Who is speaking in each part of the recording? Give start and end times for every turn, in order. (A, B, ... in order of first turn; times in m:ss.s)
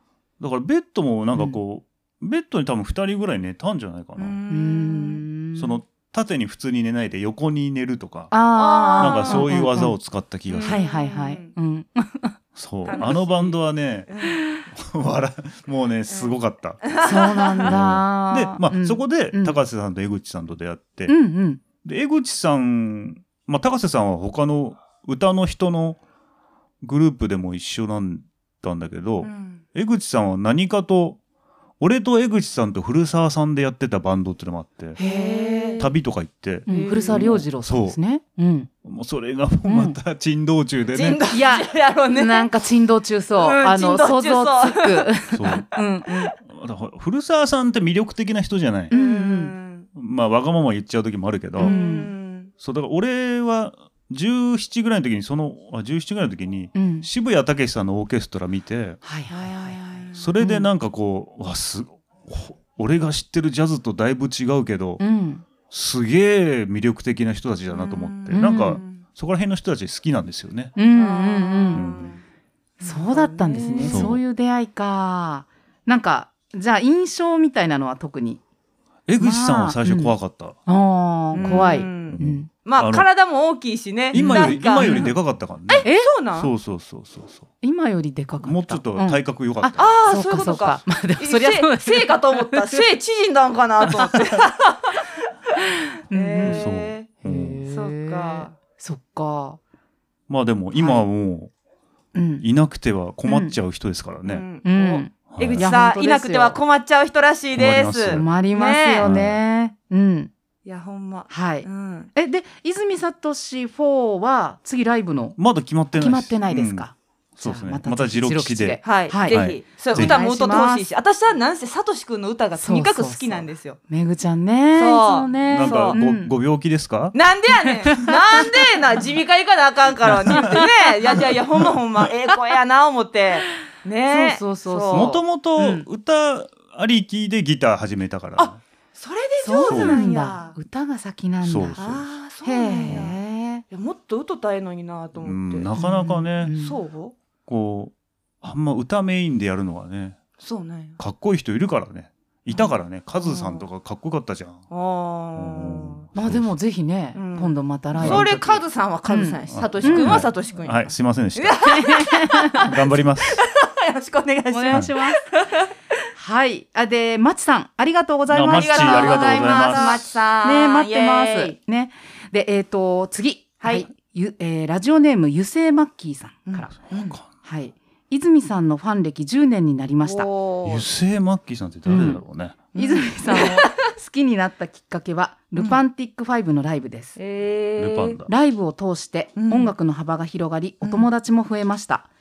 0:00.4-0:04.4 A
0:04.2-0:05.2 B
0:04.5-0:05.8 C
0:05.6-0:08.3 A
0:08.3-0:10.0 C
0:08.5-0:09.5 B
0:09.0-0:10.8 A
0:10.5-0:11.5 B
0:10.6-0:12.4 C
0:12.5-0:14.1 A
0:12.9-0:14.4 B
0:14.7-0:16.9 A
0:16.1-0:17.7 B
0:17.0-0:19.6 C
0:17.6-0:21.1 A
0:21.1-0:21.6 C
0:21.8-0:26.0 A
0:26.8-0:31.2 A
0:29.2-0:29.6 B
0:31.8-0:35.0 A
0:35.0-0:35.8 C
0:35.0-0:35.9 B
0:35.8-0:38.0 A
0:36.6-0:38.7 C
0:36.7-0:37.4 B
0:38.8-0:41.2 A
0:39.7-0:40.0 C
0:40.9-0:42.5 B
0:41.3-0:46.3 C
0:43.4-0:45.1 B
0:45.3-0:45.7 A
0:45.8-0:46.1 B
0:46.4-0:48.9 A
0:48.9-0:49.5 C
0:48.9-0:49.9 B
0:49.9-0:51.8 A
0:51.6-0:52.1 C
0:51.6-0:52.5 B
0:52.6-0:59.0 A
0:56.7-0:57.1 C
0:59.0-0:59.8 C
0:59.3-1:00.3 B
1:00.1-1:05.0 A
1:00.4-1:00.7 C
1:05.0-1:05.4 C
1:05.7-1:10.7 A
1:07.7-1:09.0 B
1:08.3-1:08.8 C
1:10.8-1:11.8 C
1:10.9-1:12.2 B
1:11.7-1:12.1 A
1:12.8-1:14.1 B
1:12.8-1:18.4 C
1:13.9-1:14.2 A
1:19.1-1:20.6 A
1:19.2-1:20.1 C
1:20.6-1:22.5 C
1:21.3-1:23.0 A
1:21.3-1:25.1 B
1:24.1-1:27.4 A
1:24.1-1:25.1 C
1:25.7-1:26.5 B
1:25.8-1:26.1 C
1:27.6-1:32.8 C
1:28.4-1:29.9 A
1:29.8-1:35.1 B
1:36.1-1:36.7 C
1:36.1-1:37.1 B
1:36.4-1:37.6 A
1:37.2-1:39.6 C
1:37.7-1:38.5 B
1:40.3-1:41.5 A
1:40.7-1:41.0 C
1:42.1-1:42.4 C
1:42.4-1:44.4 A
1:43.2-1:43.5 C
1:44.2-1:49.1 B
1:44.6-1:46.6 C
1:45.3-1:45.7 A
1:47.5-1:48.3 A
1:48.1-1:50.3 C
1:49.0-1:49.4 A
1:50.6-1:52.1 B
1:51.3-1:55.4 C
1:55.4-2:00.2 A
1:56.0-2:00.8 C
1:58.8-2:03.8 B
2:02.6-2:06.3 C
2:04.7-2:06.0 B
2:05.5-2:07.1 A
2:07.1-2:15.1 B
2:10.0-2:10.6 A
2:10.4-2:10.7 C
2:14.1-2:15.8 C
2:14.9-2:18.6 A
2:18.4-2:20.6 B
2:19.4-2:21.8 C
2:19.7-2:20.0 A
2:21.4-2:22.0 A
2:21.7-2:25.7 B
2:22.4-2:23.6 C
2:25.2-2:26.5 A
2:25.7-2:26.8 C
2:26.6-2:27.1 B
2:27.5-2:30.2 A
2:30.4-2:31.0 B
2:31.0-2:34.6 A
2:32.5-2:33.6 B
2:34.7-2:36.0 B
2:35.4-2:36.5 A
2:36.1-2:40.3 C
2:37.1-2:45.7 B
2:37.9-2:38.3 A
2:39.5-2:41.7 A
2:41.6-2:42.7 C
2:42.6-2:43.4 A
2:44.5-2:45.2 C
2:46.2-2:56.7 C
2:48.3-2:50.0 A
2:48.5-2:51.5 B
2:53.6-2:53.9 B
2:56.5-2:57.2 B
2:56.9-2:57.2 A
2:57.4-3:00.3 C
3:00.0-3:00.8 B
3:00.6-3:02.6 A
3:01.9-3:02.2 C
3:02.7-3:03.7 B
3:02.7-3:07.2 C
3:07.2-3:08.2 B
3:07.8-3:08.3 A
3:08.3-3:12.1 C
3:09.4-3:09.7 B
3:10.8-3:11.1 B